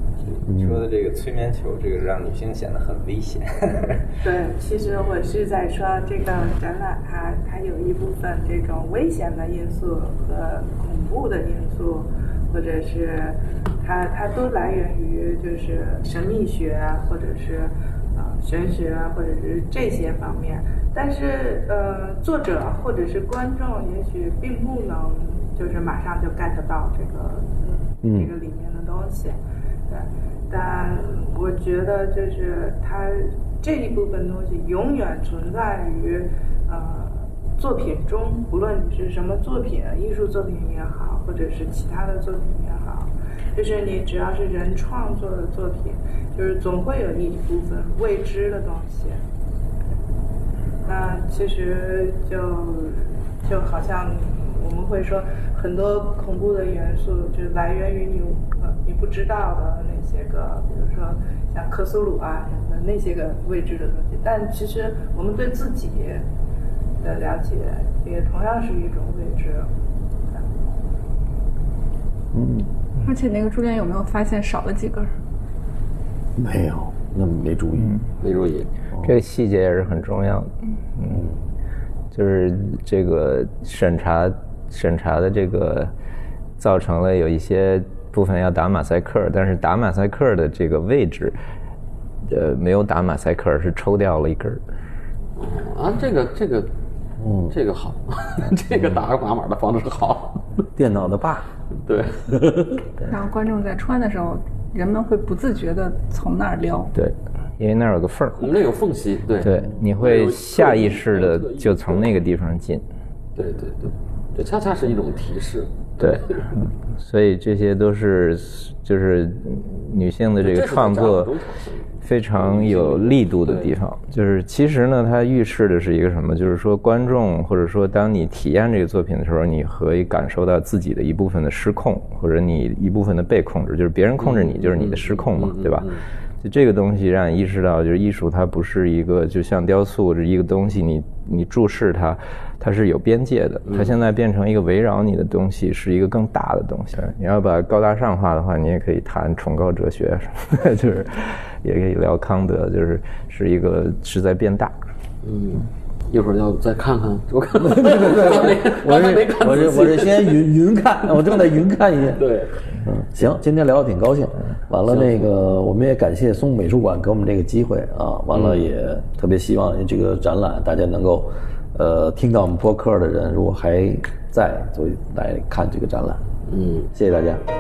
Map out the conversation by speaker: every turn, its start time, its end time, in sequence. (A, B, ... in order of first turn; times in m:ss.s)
0:00.2-0:04.0 A
0:00.5-0:00.9 B
0:04.2-0:49.2 C
0:28.0-0:28.3 B
0:50.8-1:06.2 C
1:07.0-1:09.7 C
1:10.3-1:10.6 C
1:12.3-1:12.7 B
1:13.0-1:15.1 D
1:16.4-1:18.0 B
1:18.2-1:18.7 E
1:19.0-1:21.2 F
1:21.0-1:21.4 B
1:22.1-1:25.9 F
1:26.6-1:31.4 F
1:32.3-1:34.6 F
1:35.4-1:36.7 E
1:37.2-1:37.5 B
1:37.5-1:40.6 E
1:40.7-1:41.5 B
1:41.8-1:42.7 E
1:43.1-1:46.9 D
1:46.9-1:48.5 F
1:48.4-1:52.2 E
1:49.4-1:52.8 F
1:53.4-1:56.5 E
1:56.0-1:56.4 F
1:57.0-2:01.4 F
2:00.4-2:03.7 E
2:02.0-2:34.7 F
2:14.2-2:16.0 E
2:23.7-2:24.0 E
2:35.2-2:40.4 E
2:37.6-2:42.2 B
2:42.2-2:42.6 E
2:42.8-2:56.2 B
2:44.9-2:45.3 E
2:48.3-2:48.6 E
2:56.5-2:56.9 E
2:56.9-2:57.4 B